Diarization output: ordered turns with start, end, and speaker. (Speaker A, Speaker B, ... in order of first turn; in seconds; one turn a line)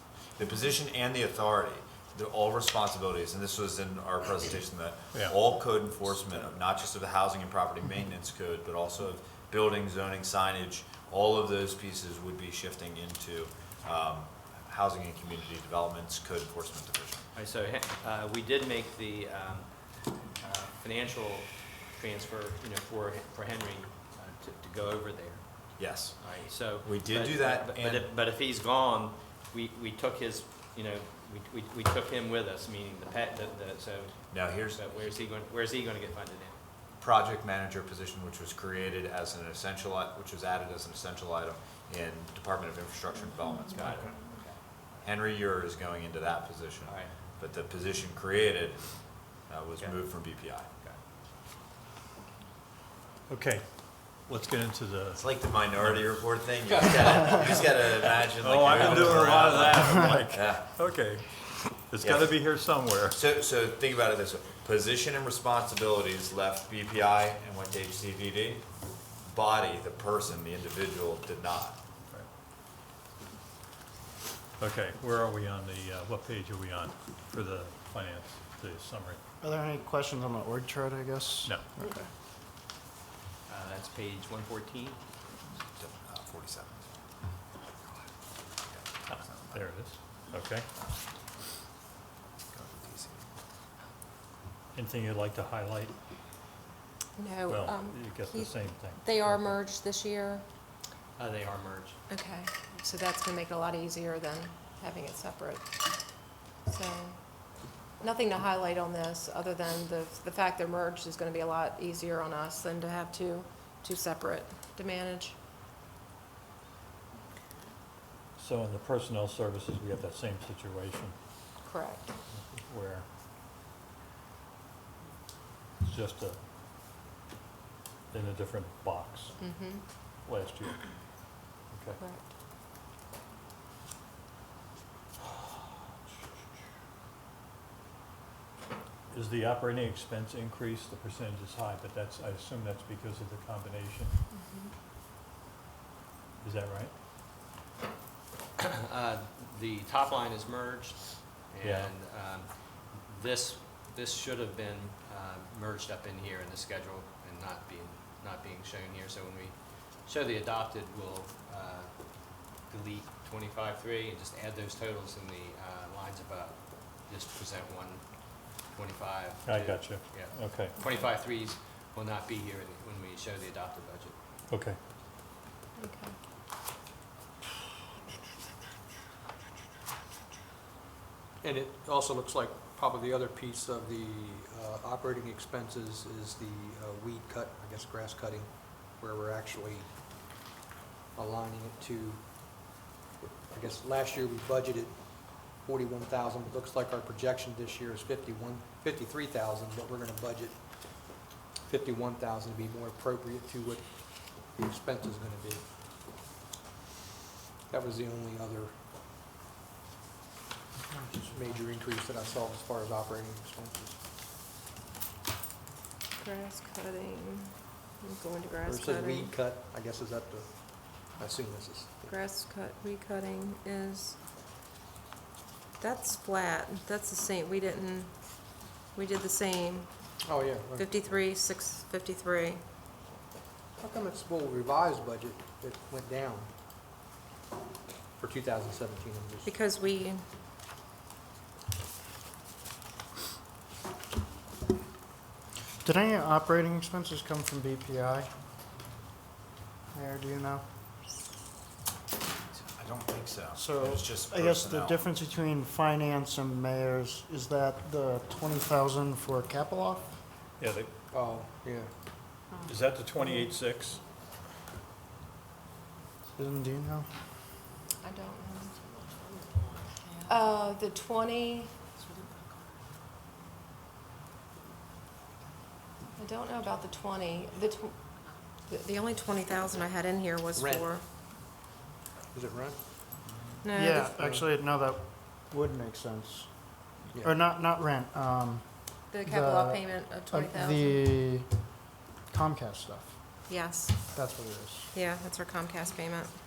Speaker A: 0.4-17.3
Speaker B: 17.4-36.6
Speaker A: 25.8-28.1
Speaker A: 34.3-34.8
Speaker A: 37.0-44.2
Speaker B: 43.8-44.6
Speaker A: 45.0-48.9
Speaker B: 46.9-47.1
Speaker A: 49.5-50.7
Speaker B: 49.8-50.1
Speaker C: 53.3-56.1
Speaker A: 55.2-60.7
Speaker B: 56.9-57.4
Speaker C: 58.3-63.2
Speaker A: 62.0-62.4
Speaker A: 63.1-68.7
Speaker A: 69.2-71.8
Speaker C: 74.6-79.2
Speaker D: 79.4-81.8
Speaker B: 83.5-85.0
Speaker A: 85.6-86.9
Speaker A: 88.7-89.7
Speaker C: 89.1-90.7
Speaker A: 92.5-93.3
Speaker C: 94.8-95.9
Speaker E: 97.2-100.5
Speaker C: 97.5-99.6
Speaker B: 101.2-102.0
Speaker E: 102.1-105.7
Speaker E: 106.6-115.4
Speaker C: 118.4-121.2
Speaker E: 121.6-122.1
Speaker C: 122.3-123.1
Speaker C: 125.8-126.4
Speaker C: 128.1-129.4
Speaker E: 129.4-129.8
Speaker C: 130.3-130.8
Speaker C: 131.7-132.0
Speaker E: 132.0-132.2
Speaker C: 135.2-136.3
Speaker C: 139.1-144.2
Speaker C: 146.4-146.9
Speaker B: 148.6-174.1
Speaker C: 151.6-151.9
Speaker C: 169.5-170.8
Speaker C: 174.5-174.8
Speaker E: 175.8-176.2
Speaker F: 181.4-189.9
Speaker F: 191.2-192.8
Speaker F: 193.5-200.6
Speaker F: 201.7-205.6
Speaker F: 207.7-208.7
Speaker F: 211.2-214.0
Speaker E: 216.2-219.3
Speaker F: 218.7-222.1
Speaker E: 222.1-224.2
Speaker E: 225.8-229.9
Speaker F: 230.2-230.9
Speaker E: 230.8-232.6
Speaker F: 233.8-236.5
Speaker F: 238.2-239.5
Speaker E: 239.5-240.2
Speaker D: 245.8-248.3
Speaker D: 249.9-250.6
Speaker A: 252.5-255.0
Speaker D: 253.6-260.2
Speaker C: 260.6-260.9
Speaker F: 261.1-261.9
Speaker C: 262.6-264.0
Speaker D: 266.4-267.1
Speaker E: 268.0-269.1
Speaker E: 270.3-271.8
Speaker E: 276.2-278.1
Speaker E: 278.7-281.0
Speaker F: 280.6-280.9
Speaker F: 282.3-282.8
Speaker E: 283.6-284.2
Speaker D: 283.7-291.5
Speaker F: 284.2-284.5
Speaker E: 289.1-291.1
Speaker D: 292.3-293.2
Speaker E: 293.5-294.0
Speaker D: 294.1-294.9
Speaker E: 294.9-296.4